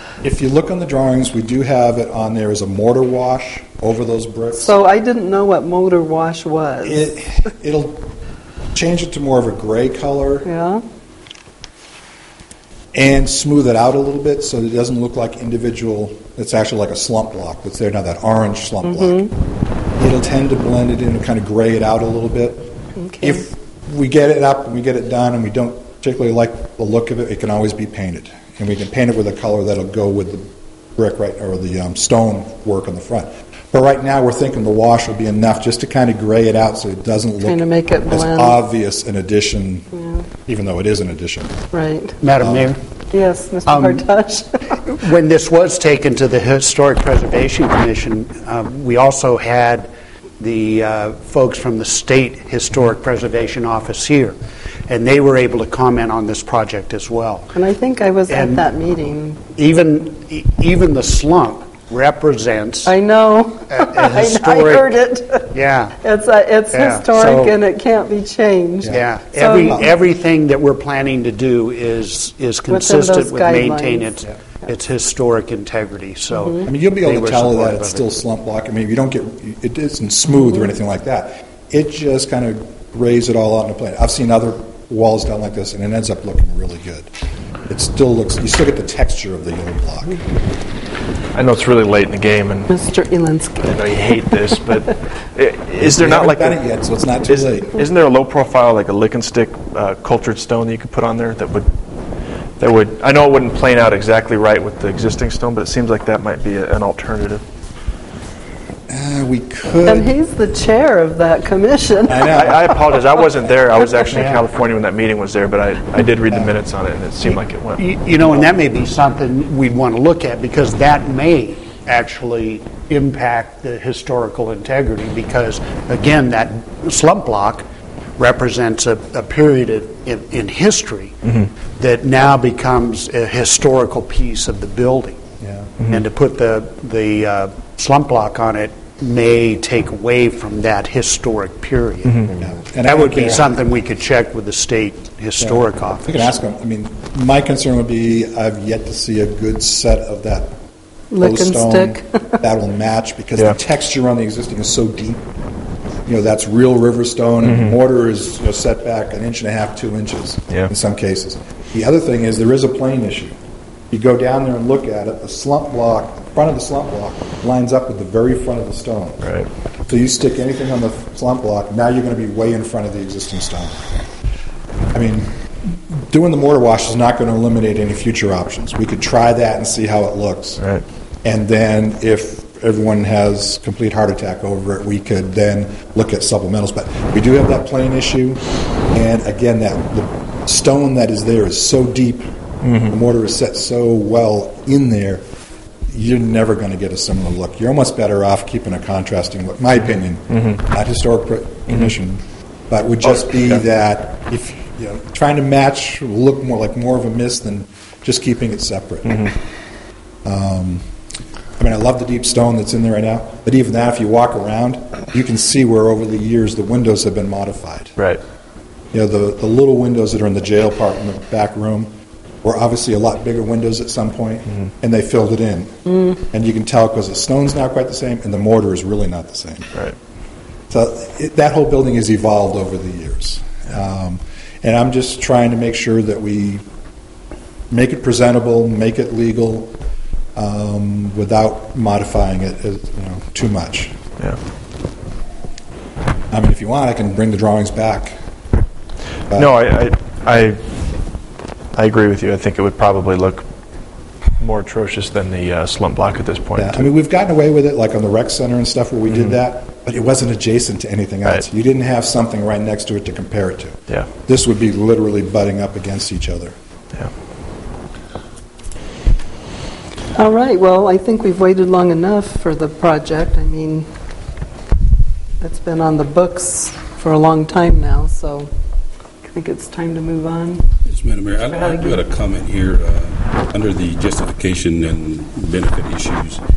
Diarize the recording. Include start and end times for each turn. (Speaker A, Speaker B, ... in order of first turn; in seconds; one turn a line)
Speaker A: 0.2-4.8
Speaker B: 4.6-7.0
Speaker A: 6.8-8.1
Speaker A: 8.7-10.5
Speaker B: 10.4-10.8
Speaker A: 12.9-19.2
Speaker B: 18.9-19.3
Speaker A: 20.0-39.9
Speaker B: 23.0-23.4
Speaker B: 37.4-38.6
Speaker A: 40.5-41.5
Speaker B: 41.7-42.1
Speaker C: 42.2-42.8
Speaker A: 42.4-42.7
Speaker B: 43.1-44.8
Speaker C: 43.7-44.0
Speaker C: 44.8-54.4
Speaker C: 54.9-57.5
Speaker B: 57.5-59.4
Speaker C: 58.3-58.6
Speaker C: 59.5-62.9
Speaker B: 62.9-69.8
Speaker C: 63.7-64.9
Speaker C: 65.5-65.9
Speaker C: 66.7-67.1
Speaker A: 67.1-67.6
Speaker C: 68.9-78.1
Speaker B: 72.7-74.2
Speaker A: 76.6-87.1
Speaker A: 87.7-90.2
Speaker D: 91.3-92.7
Speaker B: 92.7-93.7
Speaker D: 93.6-96.6
Speaker A: 95.8-97.7
Speaker D: 97.3-101.7
Speaker D: 102.6-107.4
Speaker A: 108.9-110.1
Speaker B: 109.8-112.3
Speaker A: 112.1-112.6
Speaker D: 112.3-117.8
Speaker C: 114.1-114.4
Speaker C: 117.8-127.6
Speaker C: 128.2-135.2
Speaker A: 135.4-135.7
Speaker C: 135.9-142.3
Speaker A: 142.3-143.5
Speaker C: 142.8-146.3
Speaker A: 145.4-150.5
Speaker B: 151.1-152.4
Speaker A: 151.2-155.2
Speaker A: 156.1-163.3
Speaker D: 157.4-157.8
Speaker A: 163.9-169.2
Speaker D: 169.2-169.5
Speaker A: 169.9-173.9
Speaker A: 174.9-180.6
Speaker A: 181.2-188.4
Speaker A: 188.9-192.2
Speaker D: 192.6-192.9
Speaker A: 192.8-195.2
Speaker A: 195.9-209.3
Speaker A: 210.2-210.8
Speaker A: 211.6-217.9
Speaker A: 218.9-221.9
Speaker A: 222.4-229.7
Speaker A: 230.7-236.6
Speaker A: 237.7-239.7
Speaker A: 240.3-243.9
Speaker A: 246.3-248.2
Speaker D: 249.3-250.6
Speaker D: 251.7-253.4
Speaker D: 254.4-256.9
Speaker A: 256.6-266.5
Speaker B: 270.1-273.9
Speaker B: 275.4-278.5
Speaker B: 279.2-280.6
Speaker E: 280.8-286.4
Speaker B: 281.6-282.0